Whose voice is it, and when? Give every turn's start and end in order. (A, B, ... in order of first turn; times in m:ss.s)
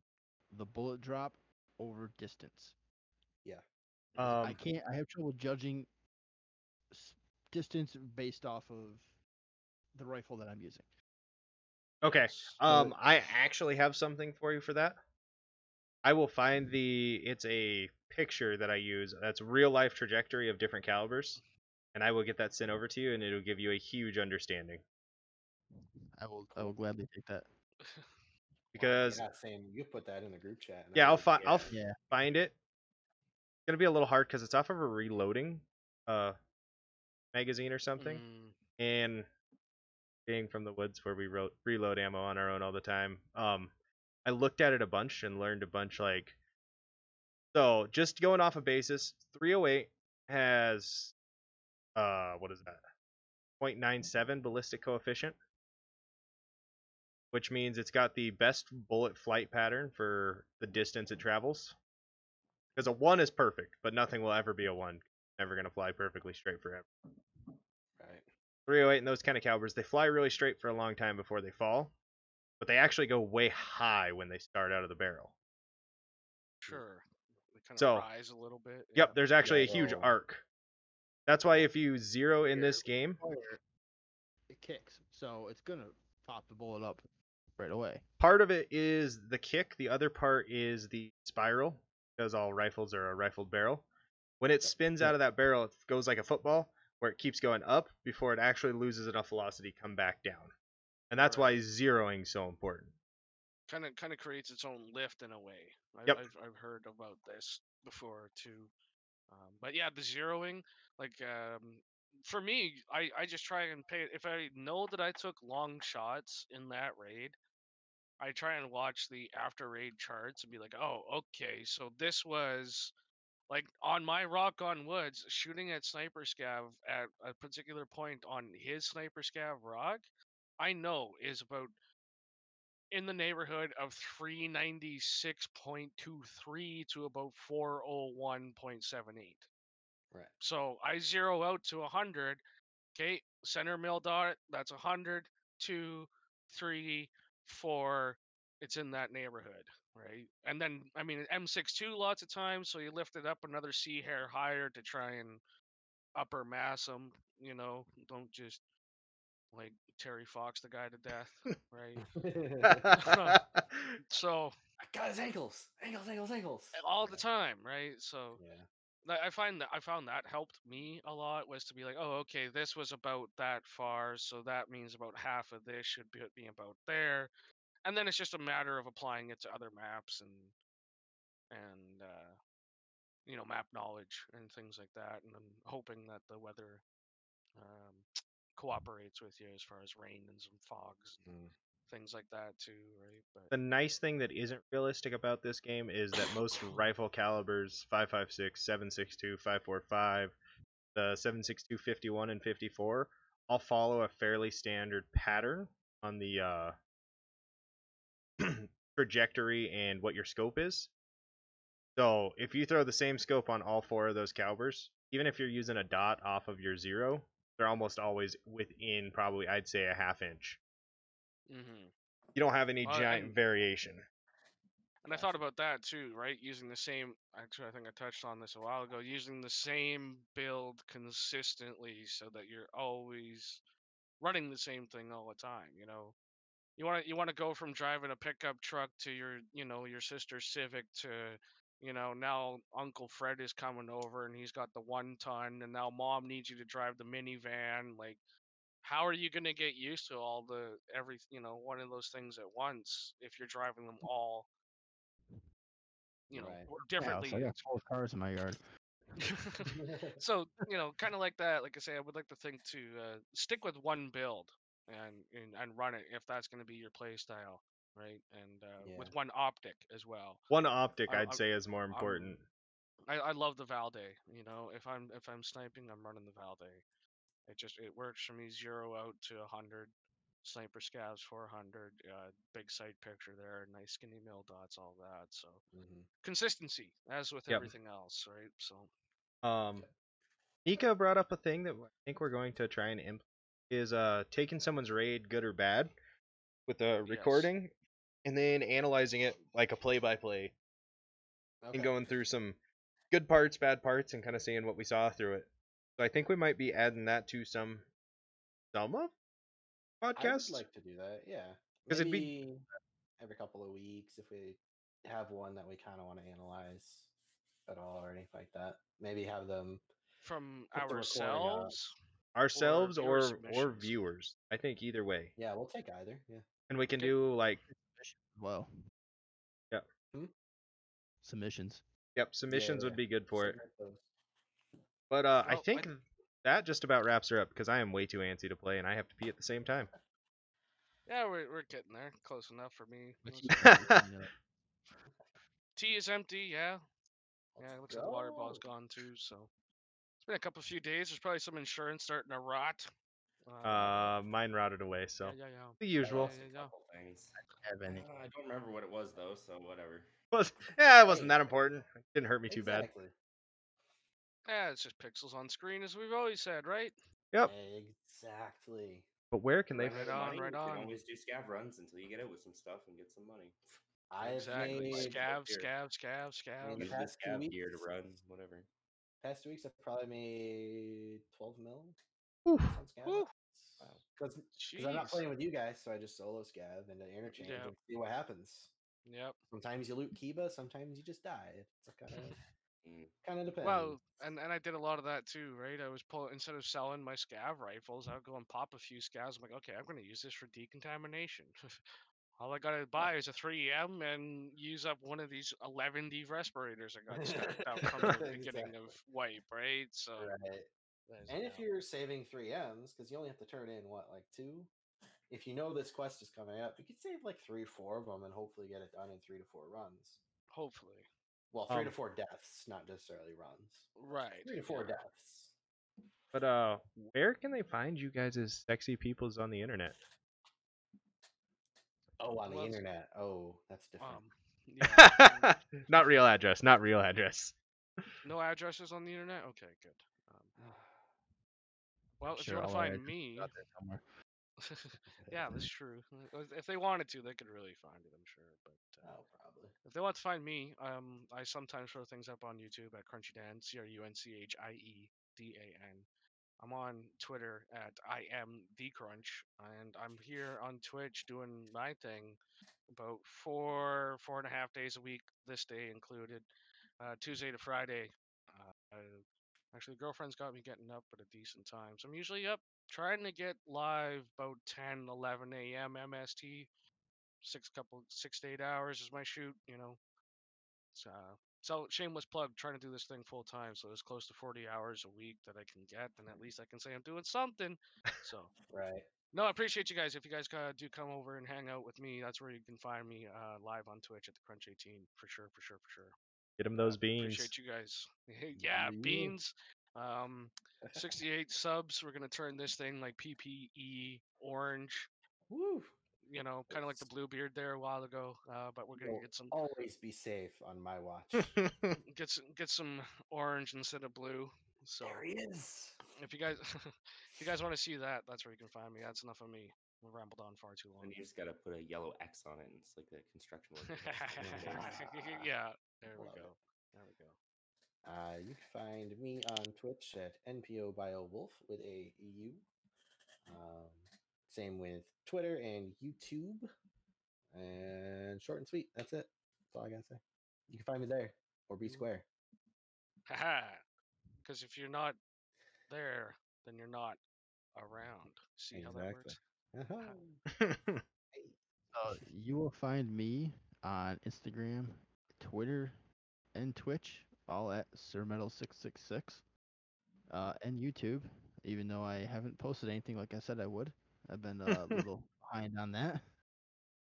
0:00.5-0:02.7 A
0:04.2-0:04.6 B
0:04.2-0:05.9 A
0:06.9-0:09.1 A
0:09.9-0:10.9 A
0:12.0-0:15.0 B
0:12.3-0:12.5 C
0:12.7-0:12.9 A
0:16.0-0:21.4 B
0:21.9-0:24.8 B
0:26.1-0:27.5 A
0:27.8-0:28.1 C
0:28.7-0:29.2 B
0:28.8-0:31.7 D
0:30.9-0:32.5 B
0:31.7-0:32.0 A
0:33.6-0:36.4 B
0:37.3-0:38.2 B
0:38.0-0:38.5 C
0:38.8-0:39.3 B
0:40.2-0:43.7 B
0:44.2-0:46.3 B
0:47.5-0:51.1 B
0:51.9-0:52.8 B
0:53.6-0:55.4 B
0:57.3-1:01.7 B
1:02.8-1:06.9 B
1:08.0-1:08.2 D
1:08.7-1:11.9 B
1:12.6-1:15.3 B
1:16.6-1:19.2 C
1:17.8-1:18.0 B
1:19.0-1:20.4 B
1:19.4-1:20.1 D
1:19.6-1:19.9 A
1:21.3-1:23.2 B
1:23.2-1:23.6 A
1:24.5-1:27.0 A
1:27.6-1:28.0 A
1:28.2-1:33.8 B
1:34.4-1:40.5 B
1:41.1-1:42.9 B
1:41.2-1:41.6 C
1:43.7-1:48.7 C
1:49.3-1:57.4 C
1:58.2-2:02.9 C
2:03.5-2:10.0 C
2:10.6-2:11.7 C
2:12.9-2:19.5 C
2:20.4-2:22.4 C
2:22.9-2:35.4 C
2:36.1-2:38.6 C
2:39.5-2:42.1 C
2:42.1-2:42.9 D
2:42.6-2:44.0 B
2:42.9-2:43.4 C
2:44.1-2:44.5 C
2:44.8-2:47.2 D
2:46.7-2:48.4 C
2:48.3-2:48.7 D
2:49.0-2:57.3 C
2:57.8-3:00.5 C
3:01.5-3:02.4 C
3:03.2-3:06.8 C
3:07.6-3:11.2 C
3:11.2-3:11.5 D
3:11.9-3:13.5 C
3:13.5-3:20.3 B
3:20.9-3:26.7 B
3:28.4-3:30.9 B
3:32.0-3:40.6 B
3:41.5-3:41.9 C
3:42.3-3:44.0 B
3:42.8-3:43.4 C
3:45.0-3:53.6 C
3:45.1-3:45.4 D
3:54.2-3:56.1 C
3:56.8-4:08.2 C
4:08.8-4:14.5 C
4:16.3-4:17.6 C
4:16.3-4:16.7 D
4:17.0-4:18.6 A
4:19.2-4:30.5 C
4:19.7-4:20.2 D
4:28.8-4:29.1 D
4:30.5-4:32.4 B
4:31.1-4:32.4 C
4:33.1-4:36.8 C
4:37.5-4:39.9 C
4:40.4-4:45.6 C
4:45.7-4:46.1 D
4:46.2-4:48.9 C
4:49.4-4:49.9 B
4:50.6-4:55.9 B
4:56.7-4:57.7 B
4:57.1-4:57.5 C
4:58.2-5:00.5 B
5:01.6-5:02.0 D
5:01.7-5:02.6 B
5:03.1-5:07.8 B
5:08.7-5:09.1 B
5:10.0-5:10.6 B
5:10.2-5:12.6 D
5:11.9-5:12.4 B
5:13.2-5:17.1 D
5:17.7-5:19.8 D
5:20.2-5:21.9 C
5:20.7-5:21.8 D
5:22.3-5:25.3 B
5:22.5-5:24.0 C
5:25.4-5:26.4 D
5:26.7-5:27.6 B
5:27.6-5:28.7 A
5:31.2-5:31.8 A
5:32.2-5:33.6 B
5:32.5-5:34.0 D
5:35.1-5:39.9 B
5:35.4-5:35.9 C
5:41.1-5:43.7 C
5:43.2-5:44.3 A
5:43.6-5:44.0 B
5:45.8-5:46.8 C
5:47.6-5:48.6 D
5:47.6-5:49.5 C
5:50.2-5:52.9 C
5:53.4-5:54.2 C
5:53.6-5:56.3 B
5:55.2-5:56.7 C
5:56.0-6:00.1 E
5:57.6-5:58.0 A
6:00.3-6:02.9 B
6:01.0-6:01.4 D
6:02.5-6:03.1 D
6:04.4-6:06.9 C
6:07.4-6:09.0 D
6:09.3-6:10.0 B
6:09.8-6:10.4 D
6:09.8-6:13.6 E
6:09.9-6:11.0 C
6:14.1-6:15.2 D
6:14.2-6:16.9 C
6:14.2-6:15.7 E
6:16.6-6:17.9 D
6:16.8-6:18.7 E
6:19.2-6:22.0 D
6:22.4-6:22.8 B
6:22.7-6:28.7 D
6:24.6-6:25.3 C
6:27.3-6:27.7 C
6:29.0-6:29.4 C
6:29.5-6:32.4 D
6:32.8-6:33.1 E
6:33.2-6:34.0 D
6:33.6-6:41.8 C
6:42.4-6:50.3 C
6:47.1-6:49.0 D
6:50.2-6:50.7 D
6:51.1-6:51.6 C
6:51.3-6:54.7 D
6:55.3-7:00.2 D
7:00.5-7:01.1 C
7:01.5-7:05.5 D
7:01.7-7:01.9 B
7:04.0-7:04.9 C
7:06.3-7:10.0 B
7:12.2-7:14.2 D
7:12.5-7:12.8 C
7:14.0-7:15.5 C
7:14.9-7:17.5 B
7:18.2-7:20.5 C
7:20.6-7:21.0 D
7:22.2-7:23.5 C
7:22.2-7:24.0 A
7:24.6-7:29.1 C
7:25.1-7:25.5 D
7:29.0-7:29.7 D
7:29.8-7:36.0 C
7:36.6-7:46.5 C
7:47.0-7:56.7 C
7:57.4-8:00.0 C
8:00.9-8:08.5 C
8:08.7-8:09.1 D
8:09.3-8:16.1 C
8:16.6-8:17.5 B
8:16.8-8:25.1 C
8:18.5-8:19.3 D
8:20.8-8:21.2 D
8:25.5-8:25.9 D
8:26.2-8:29.6 C
8:26.7-8:27.1 D
8:29.0-8:31.5 D
8:31.4-8:32.0 B
8:32.0-8:35.2 C
8:35.0-8:36.0 D
8:36.2-8:41.2 C
8:41.0-8:45.2 E
8:43.8-8:47.4 C
8:44.4-8:45.5 D
8:46.1-8:46.5 D
8:48.0-8:52.6 D
8:53.5-8:56.7 D
8:57.5-9:02.2 D
9:01.8-9:02.1 C
9:03.3-9:03.8 C
9:04.4-9:05.2 C
9:05.9-9:07.2 C
9:07.7-9:09.4 C
9:08.7-9:10.4 D
9:10.5-9:11.0 B
9:11.9-9:16.0 A
9:16.5-9:19.4 A
9:20.3-9:26.3 A
9:24.7-9:25.0 B